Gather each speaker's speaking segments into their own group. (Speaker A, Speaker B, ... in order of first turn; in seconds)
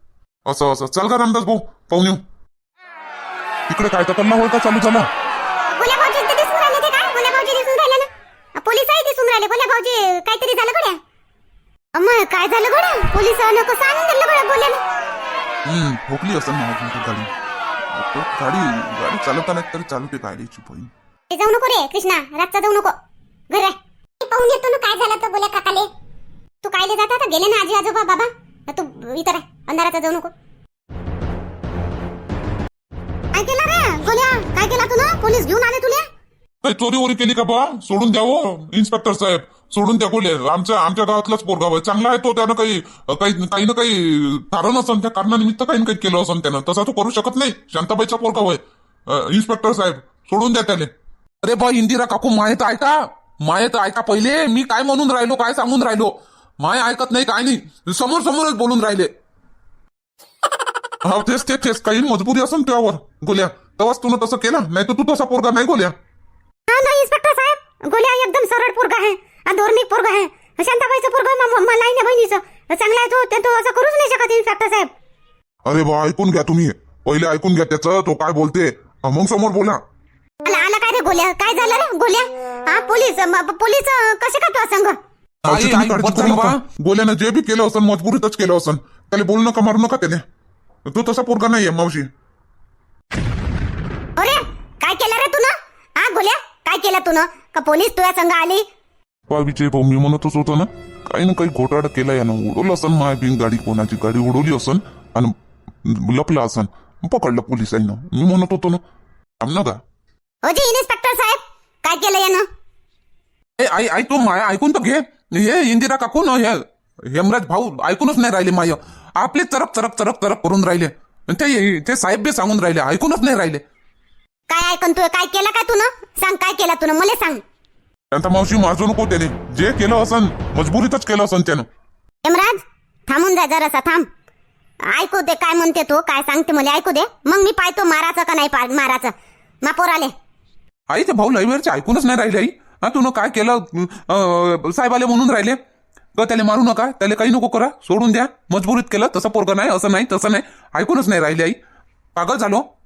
Speaker A: 0.5-2.2, 3.7-5.1, 15.7-17.3, 17.9-20.9, 36.6-50.9, 61.0-65.9, 75.7-79.8, 85.4-90.2, 90.8-92.1, 99.3-108.8, 109.4-109.8, 128.1-131.7
Speaker B: 5.7-11.0, 11.9-14.8, 21.3-22.9, 23.5-25.9, 26.6-30.3, 33.3-36.1, 66.7-74.9, 80.4-85.0, 94.2-98.7, 110.4-112.5, 124.5-127.4, 132.2-134.1, 134.8-140.1
Speaker C: 51.4-59.1, 85.5-86.6, 113.6-123.6, 140.9-145.6, 146.2-151.6, 152.2-152.7